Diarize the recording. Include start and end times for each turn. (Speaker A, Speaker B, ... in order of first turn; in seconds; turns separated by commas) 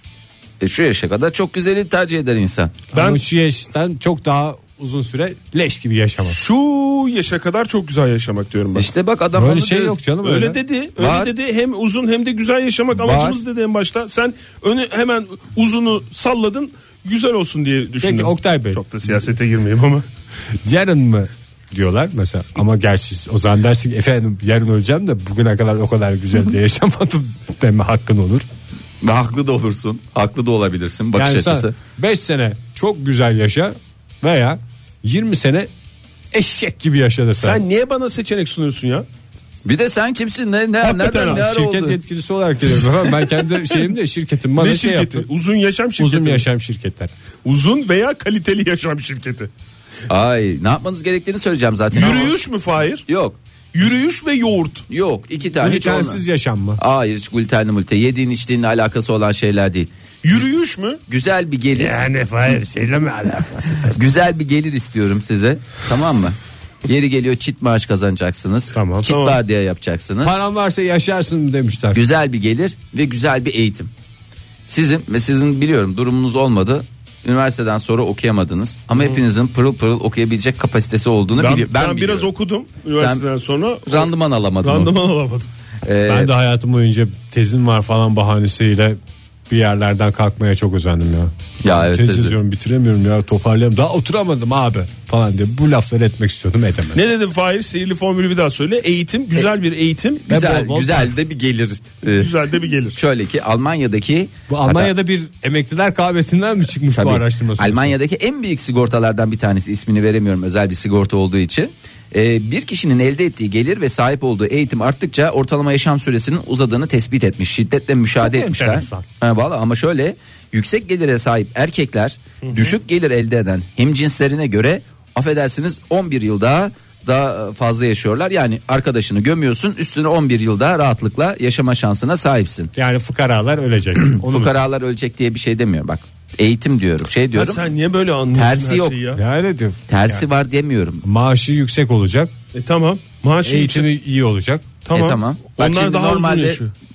Speaker A: 0.6-2.8, Speaker B: 2.9-3.2, Speaker C: 2.9-6.4, Speaker B: 6.2-8.9, Speaker A: 8.8-10.0, Speaker C: 9.3-10.6, Speaker B: 10.2-20.1, Speaker A: 11.0-11.3, Speaker A: 12.9-13.4, Speaker C: 18.0-18.8, Speaker C: 20.6-28.5, Speaker A: 29.0-31.8, Speaker C: 31.1-35.7, Speaker C: 36.3-37.6, Speaker B: 37.4-39.1, Speaker A: 39.6-42.0, Speaker B: 40.8-41.5, Speaker C: 41.3-45.3, Speaker B: 43.0-43.9, Speaker B: 44.6-46.4, Speaker C: 46.0-47.1, Speaker B: 47.5-49.5, Speaker A: 50.1-52.4, Speaker B: 51.9-53.1, Speaker A: 53.1-53.4, Speaker B: 53.7-54.9, Speaker A: 54.9-56.2, Speaker C: 55.6-56.8, Speaker A: 56.8-59.9, Speaker B: 60.2-61.0, Speaker A: 61.1-62.0, Speaker C: 61.8-64.0, Speaker A: 63.9-70.3, Speaker C: 68.7-69.1, Speaker B: 69.0-69.4, Speaker C: 70.2-72.0, Speaker A: 71.9-73.9, Speaker A: 74.7-82.3, Speaker B: 81.3-84.1, Speaker A: 83.0-83.2, Speaker A: 83.9-84.9, Speaker B: 84.6-85.5, Speaker A: 85.8-86.3, Speaker C: 86.1-89.0, Speaker C: 89.5-97.0, Speaker A: 91.6-92.4, Speaker B: 96.9-100.2, Speaker A: 100.3-102.4, Speaker C: 100.3-101.1, Speaker B: 102.0-103.0, Speaker A: 102.9-104.9, Speaker C: 104.5-108.0, Speaker A: 107.0-132.7, Speaker C: 118.2-119.1, Speaker B: 122.4-122.7, Speaker C: 132.8-134.5, Speaker A: 134.1-137.7, Speaker B: 137.3-139.2, Speaker A: 138.3-139.0, Speaker C: 139.2-140.2, Speaker A: 139.9-141.0, Speaker C: 141.0-142.3, Speaker B: 142.5-143.9, Speaker C: 143.4-144.7, Speaker B: 144.8-146.7, Speaker A: 144.9-146.6